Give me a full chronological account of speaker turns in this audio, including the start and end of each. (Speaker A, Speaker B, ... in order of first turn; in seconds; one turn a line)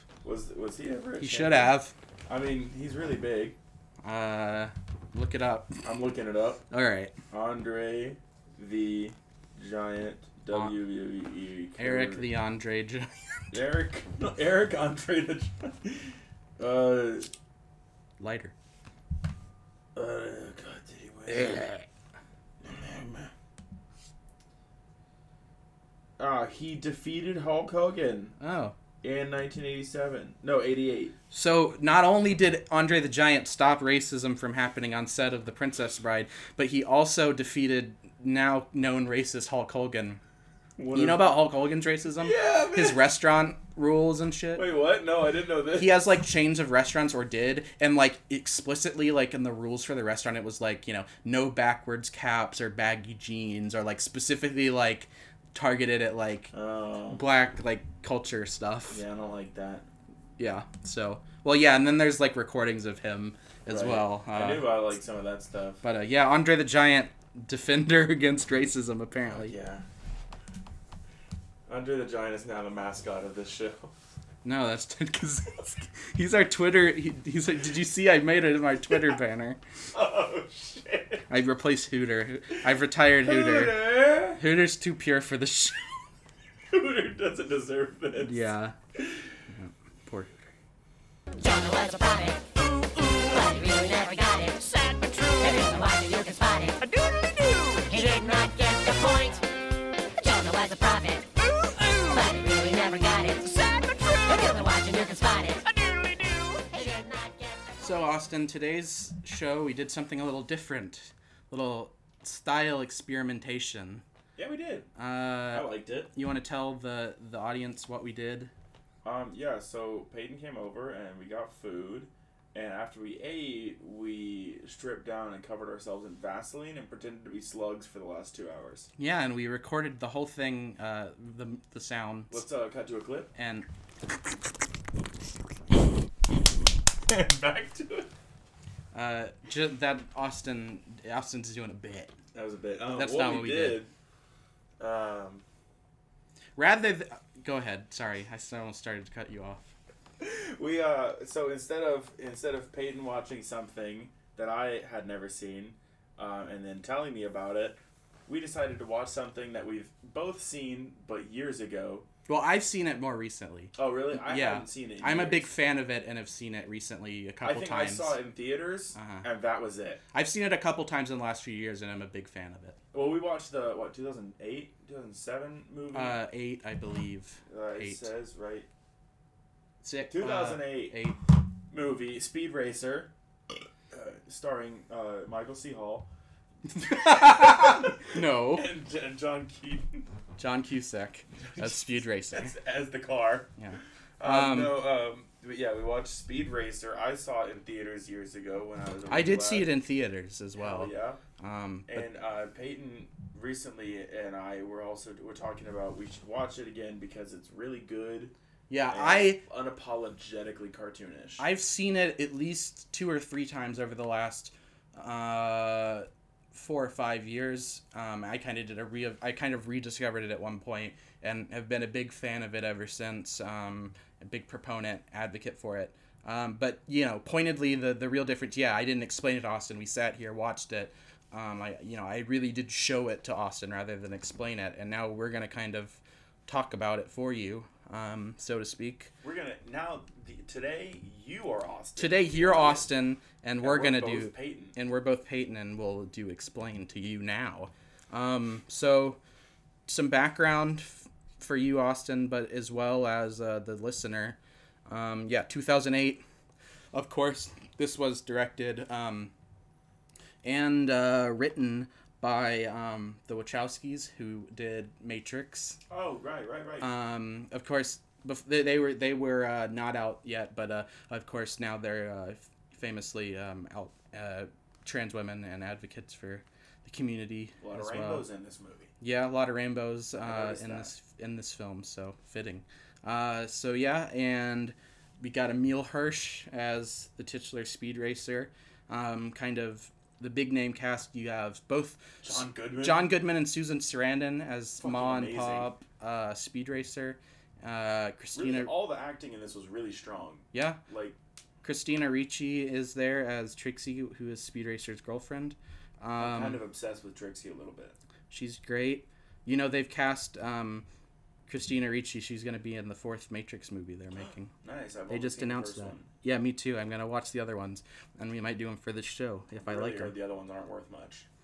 Speaker A: 0.2-1.7
Speaker B: 1.2-1.9
Speaker A: 2.3-3.6
Speaker B: 4.0-5.8
Speaker A: 5.8-6.6
Speaker B: 6.7-7.1
Speaker A: 7.3-12.3
Speaker B: 10.5-10.8
Speaker B: 11.8-13.2
Speaker A: 13.5-17.3
Speaker B: 18.2-18.5
Speaker A: 19.9-21.7
Speaker B: 21.3-21.8
Speaker A: 22.6-23.3
Speaker A: 26.2-28.4
Speaker B: 28.4-28.8
Speaker A: 29.0-31.1
Speaker B: 31.3-40.2
Speaker A: 40.8-41.4
Speaker B: 40.9-44.6
Speaker A: 42.2-43.1
Speaker A: 44.5-46.0
Speaker B: 45.8-56.5
Speaker A: 56.5-57.2
Speaker B: 57.1-59.0
Speaker A: 58.9-59.9
Speaker B: 60.4-64.8
Speaker A: 63.7-65.8
Speaker B: 65.8-69.5
Speaker A: 69.3-69.8
Speaker A: 71.7-73.9
Speaker B: 74.4-79.6
Speaker A: 79.9-81.2
Speaker B: 81.3-85.9
Speaker A: 83.2-84.4
Speaker A: 86.7-88.5
Speaker B: 88.2-88.8
Speaker B: 89.5-90.3
Speaker C: 91.4-99.4
Speaker C: 100.2-107.7
Speaker B: 107.8-114.0
Speaker A: 114.3-114.9
Speaker B: 115.0-118.5
Speaker A: 115.5-116.1
Speaker A: 119.0-128.9
Speaker B: 129.0-132.4
Speaker A: 132.3-133.3
Speaker B: 133.3-133.7
Speaker A: 137.1-138.1
Speaker B: 138.9-142.1
Speaker A: 142.3-143.9
Speaker B: 142.9-143.8
Speaker A: 144.8-145.4
Speaker B: 146.6-149.7
Speaker A: 150.2-162.1
Speaker B: 162.3-168.2
Speaker A: 163.8-165.5
Speaker A: 167.4-170.0
Speaker B: 168.9-169.2
Speaker B: 170.1-172.8
Speaker A: 172.9-176.2
Speaker B: 175.9-178.1
Speaker A: 177.5-178.7
Speaker B: 179.8-181.2
Speaker A: 180.1-181.0
Speaker A: 181.7-183.1
Speaker A: 183.9-186.1
Speaker B: 186.7-188.7
Speaker A: 186.8-190.1
Speaker B: 190.4-192.5
Speaker A: 192.3-193.5
Speaker B: 193.6-194.8
Speaker A: 194.2-199.7
Speaker B: 199.1-202.1
Speaker A: 200.6-201.2
Speaker A: 201.9-208.3
Speaker B: 208.7-209.4
Speaker A: 208.9-211.4
Speaker B: 211.4-239.1
Speaker A: 239.2-242.9
Speaker B: 242.0-249.2
Speaker A: 243.6-244.8
Speaker B: 249.9-256.2
Speaker B: 256.9-259.3
Speaker B: 260.4-265.8
Speaker A: 265.9-266.9
Speaker B: 266.8-278.2
Speaker A: 277.6-278.9
Speaker B: 279.0-298.7
Speaker A: 280.1-280.9
Speaker A: 292.2-293.1
Speaker A: 294.8-295.7
Speaker A: 298.3-301.1
Speaker B: 300.5-300.8
Speaker B: 301.6-306.6
Speaker A: 306.1-307.9
Speaker B: 308.3-310.9
Speaker B: 311.5-314.5
Speaker A: 314.2-316.1
Speaker B: 315.1-320.1
Speaker A: 319.6-321.2